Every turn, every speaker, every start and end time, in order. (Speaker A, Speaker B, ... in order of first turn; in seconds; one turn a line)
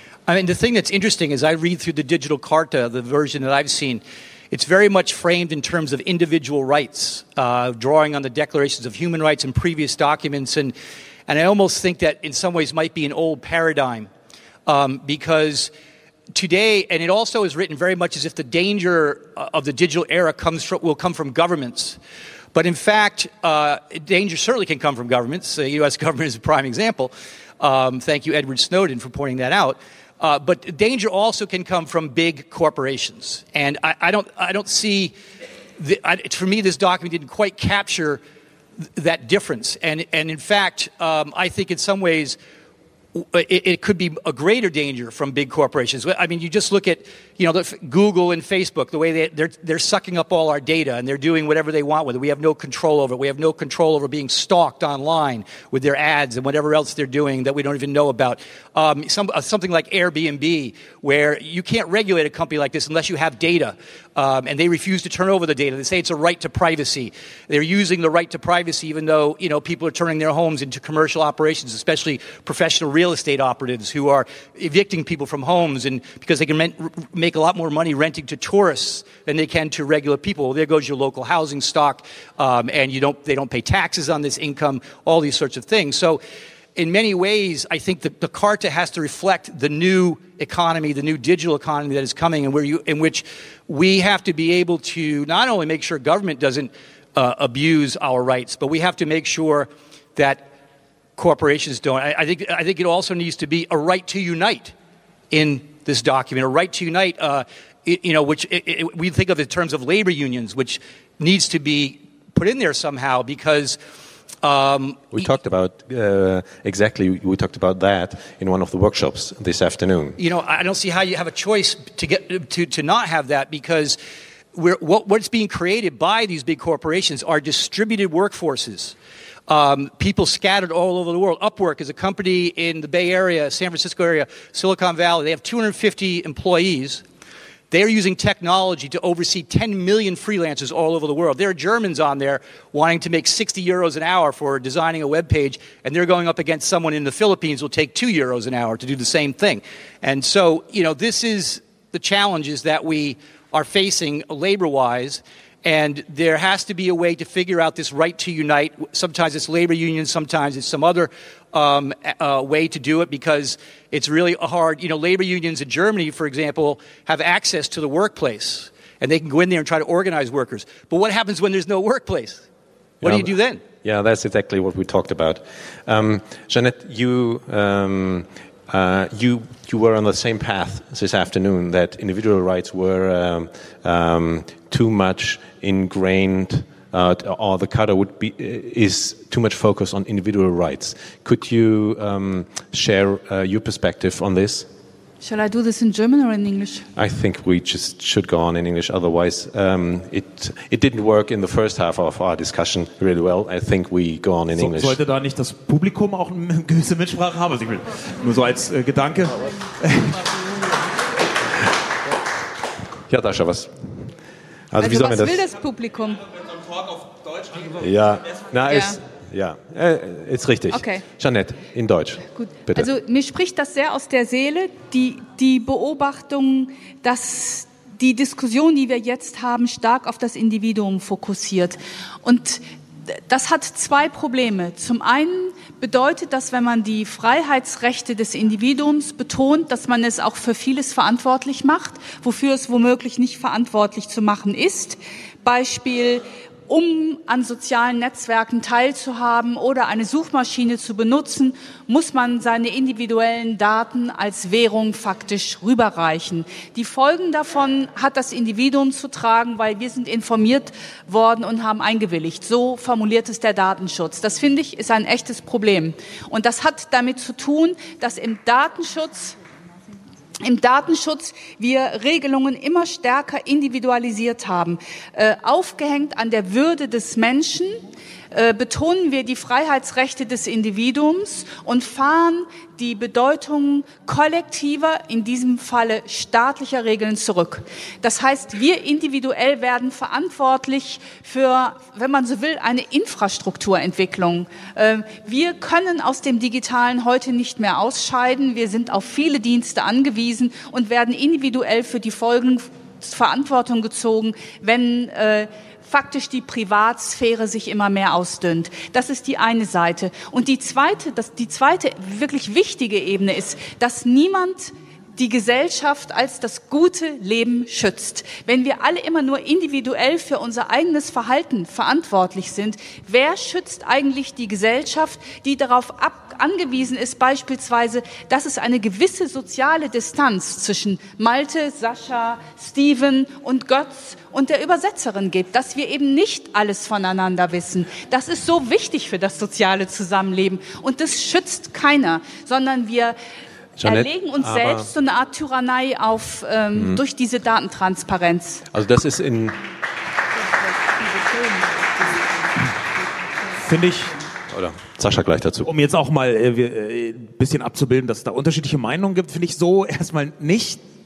Speaker A: 0.3-10.7
Speaker A: 11.3-14.1
Speaker A: 14.7-15.7
Speaker A: 16.3-22.0
Speaker A: 22.5-35.1
Speaker A: 35.8-38.2
Speaker A: 39.0-42.4
Speaker A: 43.1-86.2
Speaker A: 86.8-100.5
Speaker A: 101.2-104.7
Speaker A: 105.3-113.8
Speaker A: 114.4-115.2
Speaker B: 115.1-120.2
Speaker A: 120.2-124.0
Speaker A: 124.5-128.9
Speaker A: 129.5-137.0
Speaker A: 137.7-172.4
Speaker A: 173.0-173.6
Speaker B: 173.0-194.7
Speaker C: 195.2-196.8
Speaker B: 196.9-205.0
Speaker D: 204.6-210.2
Speaker B: 213.1-214.1
Speaker B: 214.7-215.4
Speaker C: 214.8-216.4
Speaker B: 217.7-222.9
Speaker C: 218.7-219.0
Speaker C: 220.7-221.0
Speaker C: 222.3-269.4
Speaker C: 270.4-343.1
Speaker B: 343.8-344.9
Speaker C: 343.8-348.6
Speaker B: 348.7-349.6
Speaker D: 353.6-354.2
Speaker B: 354.5-355.7
Speaker D: 355.6-360.8